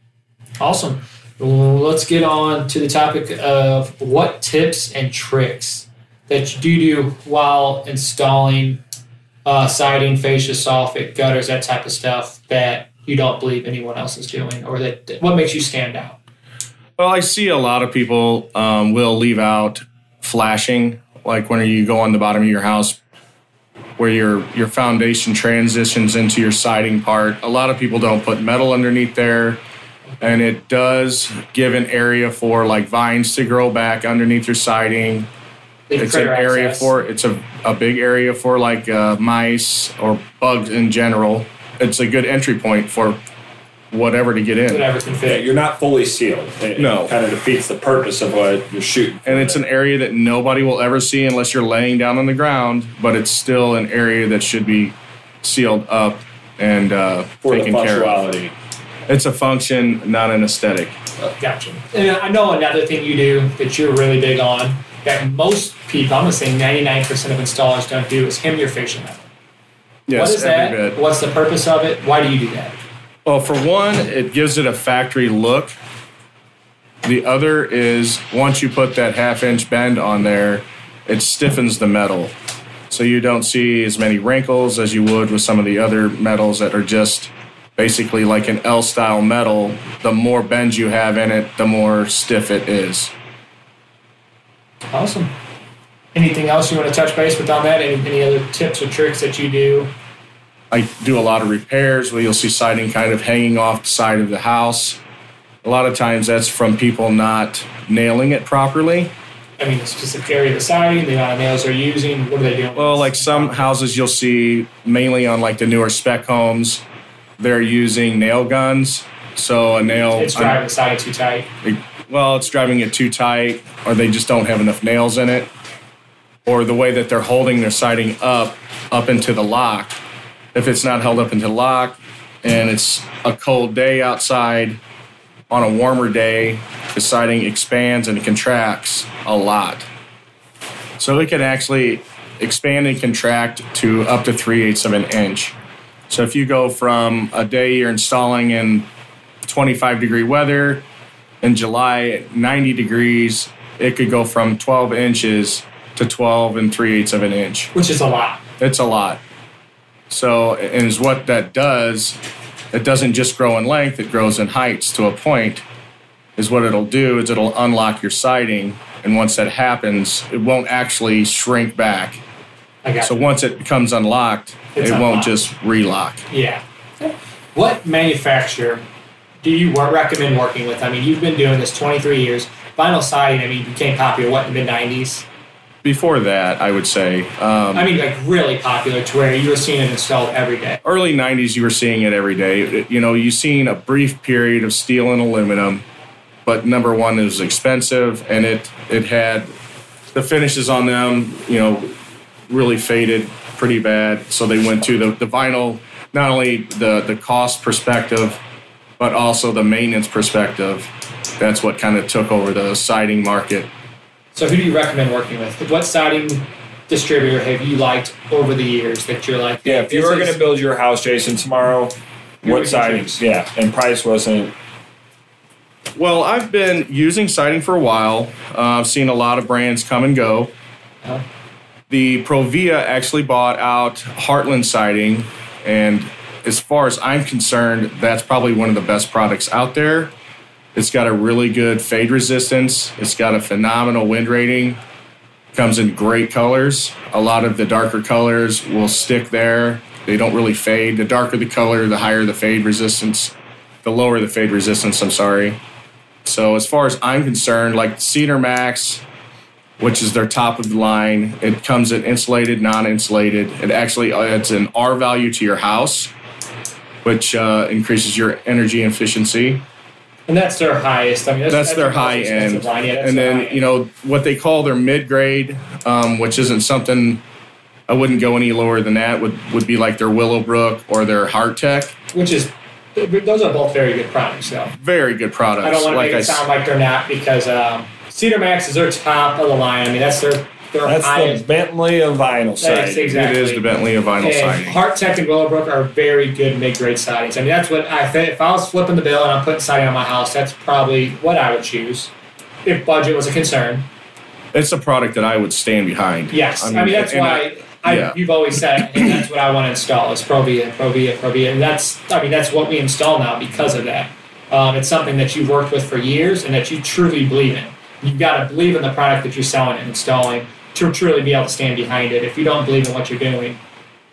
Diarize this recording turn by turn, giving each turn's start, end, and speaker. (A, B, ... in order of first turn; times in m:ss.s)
0:00.6-0:08.8 A
0:09.4-0:16.2 A
0:17.0-0:23.0 B
0:24.0-0:29.6 B
0:30.2-0:35.3 B
0:35.9-0:36.9 A
0:36.0-0:43.2 B
0:43.9-0:44.8 B
0:44.7-0:45.4 A
0:45.2-0:49.6 C
0:46.8-0:47.1 B
0:49.2-0:58.2 B
0:57.4-0:58.5 C
0:59.1-1:01.0 B
1:01.2-1:09.3 A
1:10.1-1:11.0 B
1:10.1-1:12.8 A
1:13.2-1:15.8 B
1:17.0-1:22.3 B
1:22.9-1:33.1 B
1:34.9-1:35.3 A
1:36.1-1:39.9 A
1:40.7-1:45.0 B
1:45.6-1:49.1 B
1:49.6-1:53.7 A
1:52.8-1:56.8 B
1:57.4-2:00.6 B
2:00.1-2:01.5 A
2:01.6-2:05.5 B
2:06.4-2:10.0 B
2:10.5-2:14.8 B
2:15.5-2:19.9 B
2:21.0-2:25.5 B
2:26.1-2:28.9 B
2:29.4-2:30.8 B
2:31.4-2:37.7 B
2:37.7-2:38.4 A
2:38.6-2:39.2 B
2:40.1-2:42.2 B
2:42.7-2:45.6 B
2:46.4-2:52.2 B
2:52.8-2:53.3 A
2:53.0-2:56.2 B
2:54.8-2:55.4 A
2:56.3-2:58.8 A
2:59.4-3:05.2 A
3:05.8-3:07.9 B
3:07.7-3:10.8 A
3:10.8-3:15.8 B
3:16.4-3:19.5 B
3:20.1-3:21.9 B
3:22.5-3:28.4 B
3:29.0-3:33.7 B
3:34.3-3:40.4 A
3:39.6-3:44.5 C
3:42.4-3:43.2 A
3:46.0-3:50.5 B
3:51.9-4:00.1 B
4:00.8-4:04.8 B
4:05.5-4:15.6 B
4:16.2-4:19.0 B
4:19.8-4:26.1 B
4:27.0-4:29.6 B
4:30.3-4:33.6 A
4:31.5-4:37.2 B
4:37.9-4:41.9 B
4:42.1-4:44.8 A
4:44.8-4:46.4 B
4:45.6-4:51.4 A
4:50.8-4:53.1 C
4:52.6-4:53.7 A
4:53.1-4:54.8 B
4:54.2-5:02.1 A
5:02.6-5:03.9 A
5:04.5-5:08.2 B
5:06.3-5:23.6 A